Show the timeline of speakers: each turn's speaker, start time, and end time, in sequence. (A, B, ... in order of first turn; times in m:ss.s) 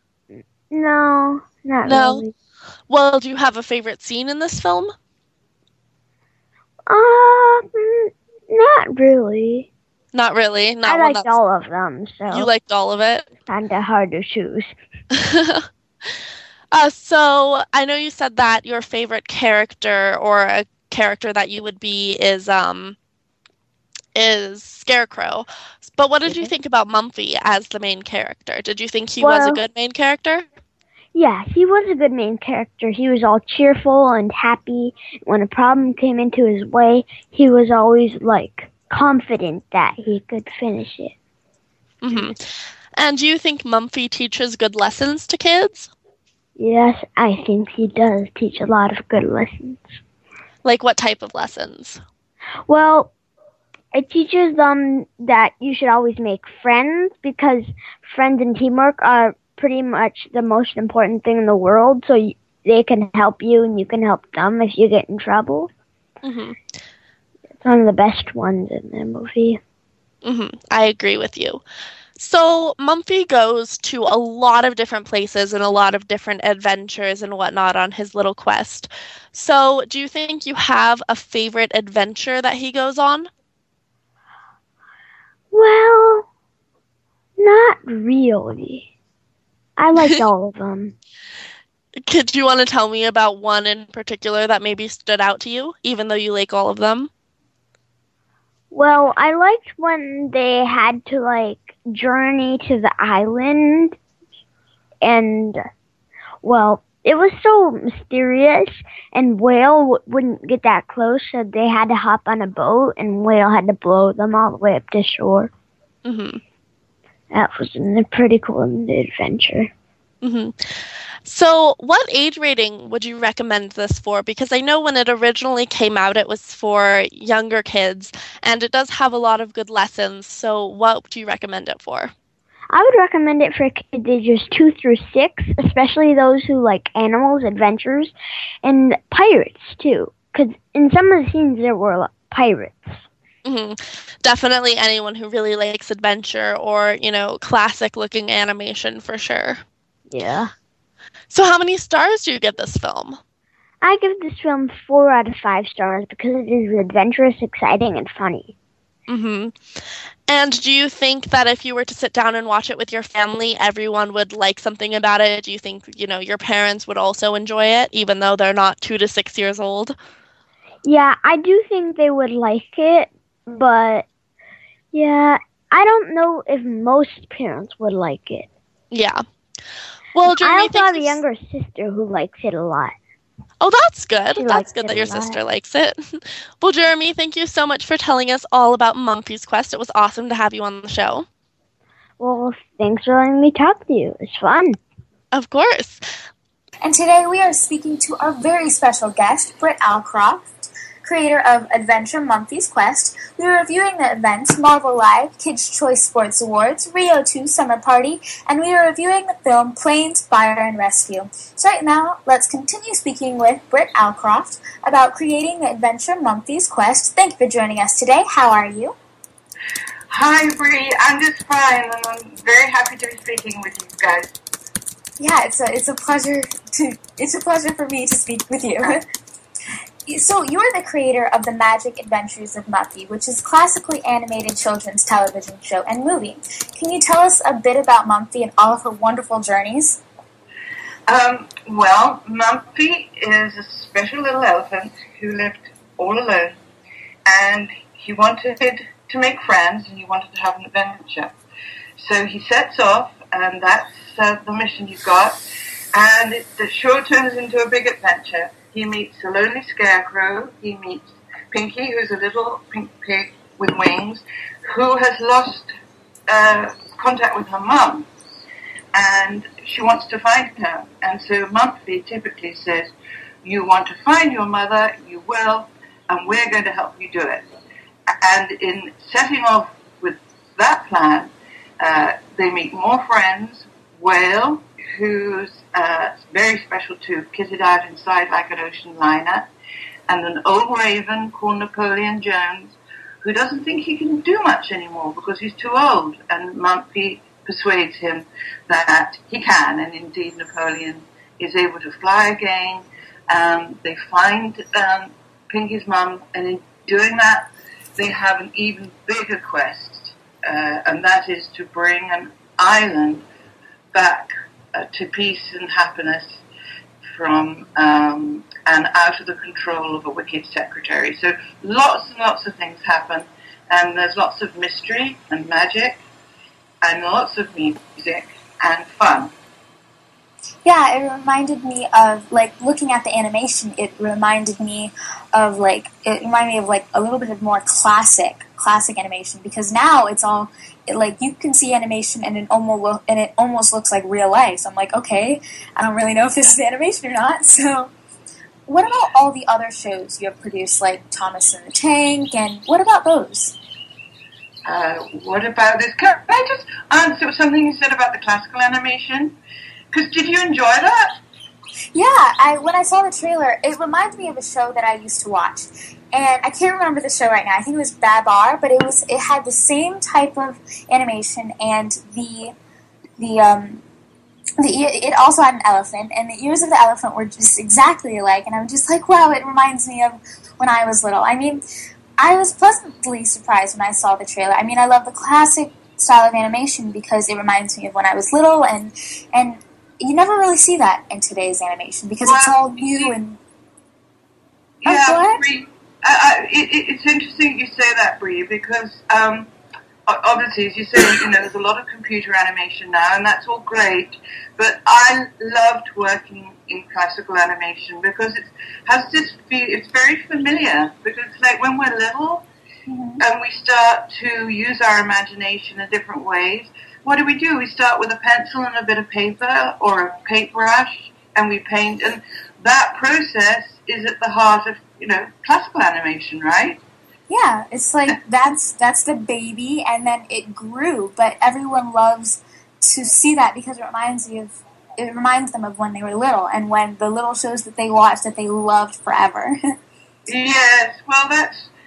0:00.4-0:02.3 A
0:01.8-0:02.2 B
0:02.9-0:04.9 B
0:06.9-0:09.7 A
0:10.1-0:11.3 B
0:10.8-0:12.5 A
0:12.3-0:13.3 B
0:13.5-0:14.7 A
0:15.2-0:15.7 B
0:16.7-0:23.0 B
0:24.2-0:30.4 B
0:26.2-0:26.5 A
0:29.2-0:29.6 A
0:31.2-0:41.1 A
0:42.0-0:42.4 B
0:43.0-0:45.9 B
0:46.6-0:50.0 A
0:50.6-0:52.0 B
0:52.7-0:53.1 A
0:53.9-1:05.7 A
1:06.2-1:06.6 B
1:07.6-1:09.6 A
1:10.2-1:11.6 B
1:12.2-1:23.3 B
1:25.5-1:26.3 A
1:27.4-1:28.9 A
1:29.8-1:31.0 A
1:32.1-1:37.1 B
1:38.7-1:44.0 A
1:45.0-1:45.6 A
1:46.4-1:55.5 A
1:56.0-1:56.4 B
1:57.3-1:59.7 A
2:00.2-2:00.6 B
2:01.2-2:12.1 B
2:12.7-2:18.1 A
2:18.6-2:23.0 A
2:23.4-2:29.6 B
2:30.1-2:30.5 A
2:31.3-2:33.2 B
2:33.8-2:38.5 A
2:39.1-2:39.6 B
2:40.3-2:50.0 B
2:50.8-2:54.0 A
2:54.9-2:58.5 A
2:58.9-2:59.2 B
3:00.2-3:01.2 B
3:00.2-3:03.0 A
3:03.6-3:11.3 B
3:04.4-3:05.4 A
3:12.2-3:14.8 A
3:15.3-3:16.0 B
3:16.8-3:39.0 C
3:40.1-3:44.3 D
3:45.2-3:49.0 C
3:50.1-4:00.0 C
4:01.1-4:06.6 D
4:07.3-4:11.4 D
4:12.0-4:15.4 D
4:15.9-4:25.7 D
4:26.3-4:28.1 D
4:28.9-4:32.9 D
4:33.4-4:37.5 D
4:38.2-4:49.5 D
4:50.1-5:13.3 D
5:13.9-5:16.4 D
5:17.2-5:26.0 D
5:26.8-5:29.3 D
5:30.6-5:47.9 C
5:48.7-5:53.6 C
5:54.7-5:59.4 D
5:59.9-6:01.2 D
6:01.9-6:12.5 C
6:13.2-6:13.8 C
6:14.6-6:21.6 C
6:22.2-6:33.4 C
6:32.2-6:33.1 D
6:34.8-6:39.5 D
6:34.8-6:35.5 C
6:40.1-6:52.5 D
6:53.2-7:06.8 D
7:07.3-7:19.6 C
7:20.3-7:21.7 D